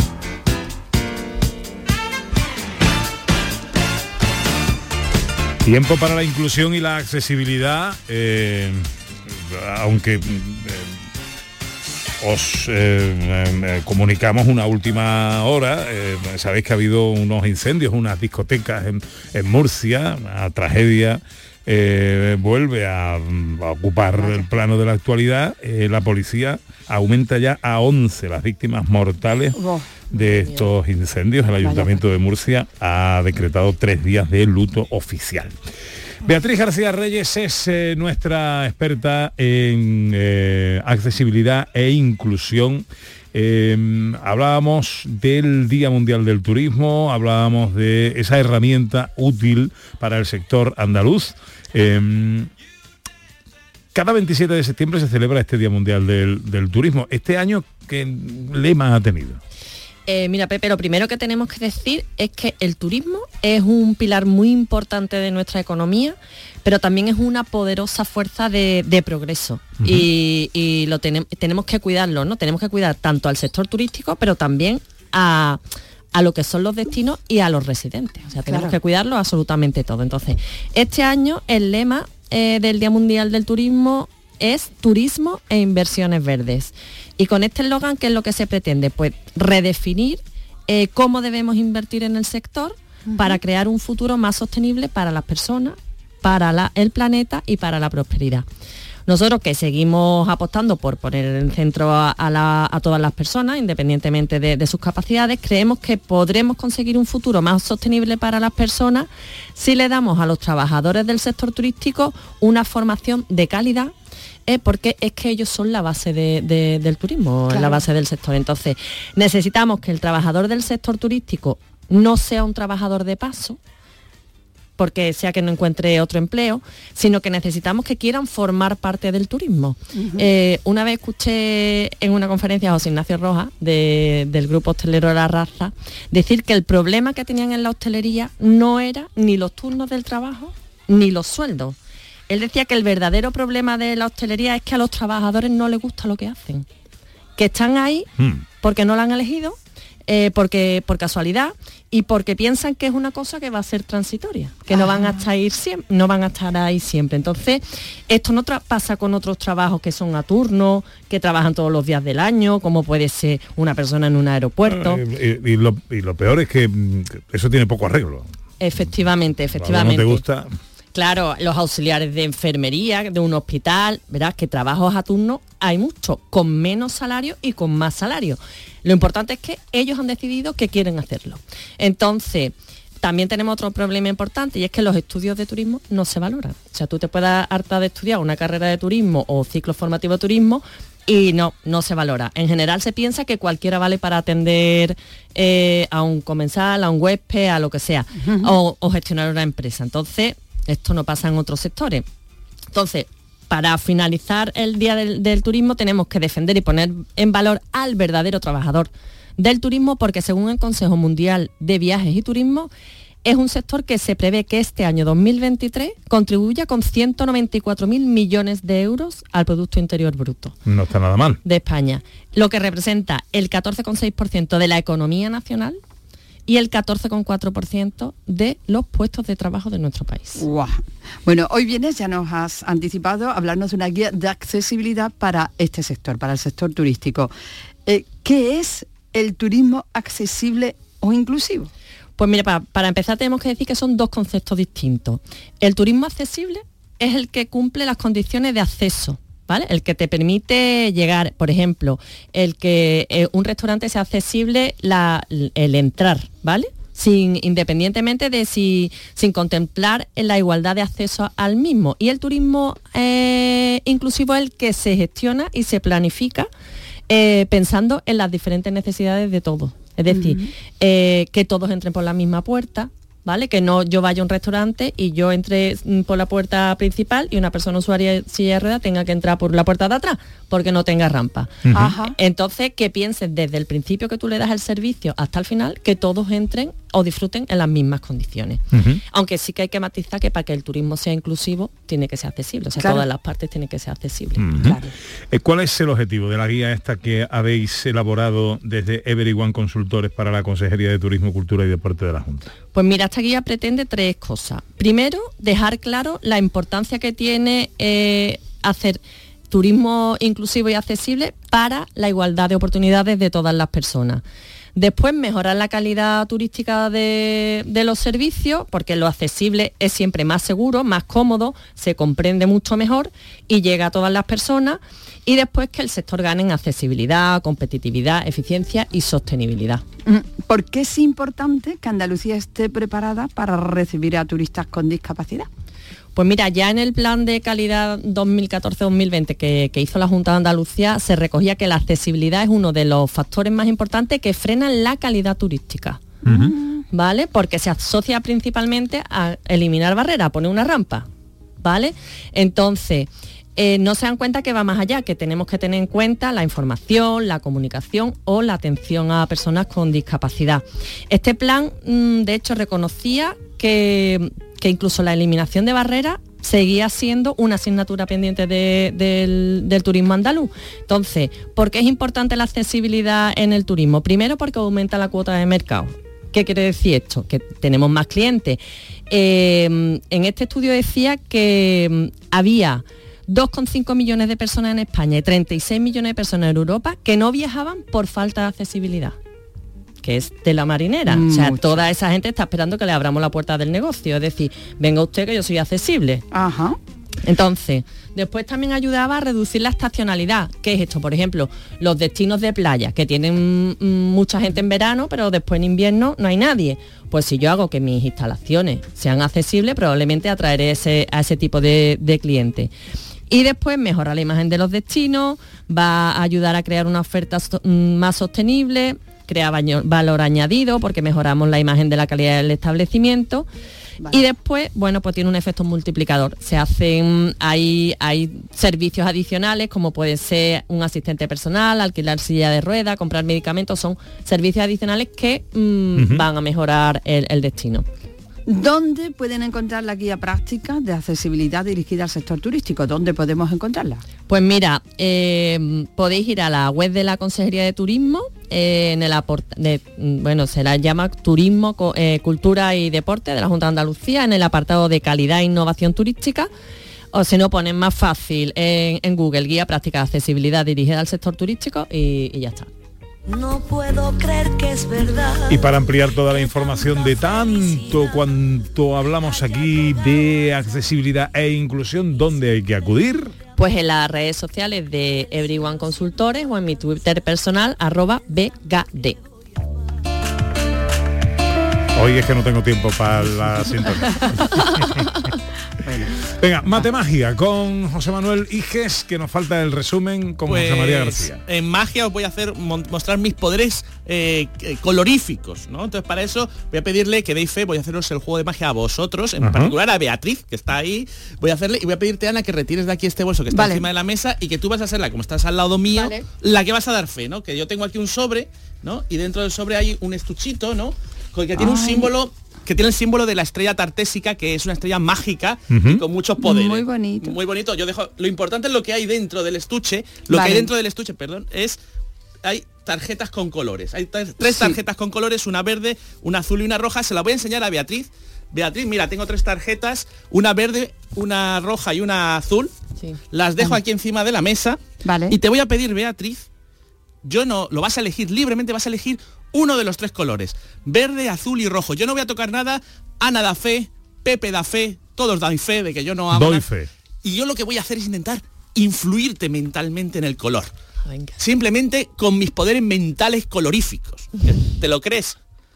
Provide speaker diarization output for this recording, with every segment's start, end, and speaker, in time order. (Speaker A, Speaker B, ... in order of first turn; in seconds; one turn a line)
Speaker A: 5.6-10.9
Speaker A: 12.2-29.6
Speaker B: 24.1-24.5
Speaker B: 29.5-30.0
Speaker A: 30.1-35.6
Speaker B: 31.6-32.0
Speaker A: 36.2-52.5
Speaker A: 53.9-59.4
Speaker C: 60.1-75.6
Speaker A: 69.8-70.1
Speaker C: 76.1-98.4
Speaker B: 78.4-78.8
Speaker B: 93.1-93.4
Speaker C: 99.1-113.9
Speaker C: 114.5-123.6
Speaker B: 117.5-117.8
Speaker C: 124.8-141.8
Speaker B: 129.9-130.2
Speaker C: 142.3-146.7
Speaker C: 147.4-148.1
Speaker A: 148.2-148.4
Speaker C: 148.6-165.0
Speaker B: 154.7-155.1
Speaker A: 164.7-168.9
Speaker C: 168.6-170.2
Speaker A: 169.5-170.5
Speaker C: 170.9-202.0
Speaker B: 198.2-198.5
Speaker C: 202.7-212.7
Speaker C: 213.2-220.6
Speaker A: 220.7-221.4
Speaker C: 221.4-225.8
Speaker C: 226.5-230.4
Speaker B: 230.4-237.3
Speaker B: 237.9-241.7
Speaker C: 242.2-266.5
Speaker C: 267.1-294.5
Speaker B: 270.1-270.5
Speaker A: 281.6-281.9
Speaker B: 281.7-282.1
Speaker A: 288.7-289.0
Speaker B: 292.8-293.1
Speaker A: 294.4-294.8
Speaker B: 294.6-294.9
Speaker A: 295.3-302.5
Speaker C: 302.7-314.2
Speaker C: 314.7-329.8
Speaker B: 330.1-335.5
Speaker C: 336.1-346.0
Speaker B: 346.2-346.8
Speaker A: 346.2-346.5
Speaker C: 346.9-351.1
Speaker C: 351.6-389.2
Speaker C: 390.0-396.2
Speaker B: 391.1-391.8
Speaker B: 396.3-396.8
Speaker C: 397.2-412.7
Speaker C: 413.3-423.5
Speaker C: 424.1-437.9
Speaker A: 435.9-436.3
Speaker B: 438.5-444.0
Speaker C: 444.3-456.5
Speaker C: 457.1-462.7
Speaker D: 463.3-465.8
Speaker A: 465.5-473.3
Speaker D: 466.5-468.2
Speaker C: 473.6-479.2
Speaker A: 481.9-485.1
Speaker B: 485.8-486.1
Speaker A: 486.2-491.4
Speaker E: 490.5-521.8
Speaker A: 499.4-499.7
Speaker B: 503.5-503.9
Speaker B: 511.6-512.1
Speaker A: 515.7-516.0
Speaker B: 516.4-517.4
Speaker B: 520.3-520.7
Speaker E: 522.4-532.7
Speaker B: 524.4-524.8
Speaker E: 533.3-536.5
Speaker B: 535.0-535.4
Speaker E: 537.2-546.6
Speaker A: 546.3-546.9
Speaker E: 547.2-550.7
Speaker C: 551.0-551.3
Speaker E: 551.4-555.4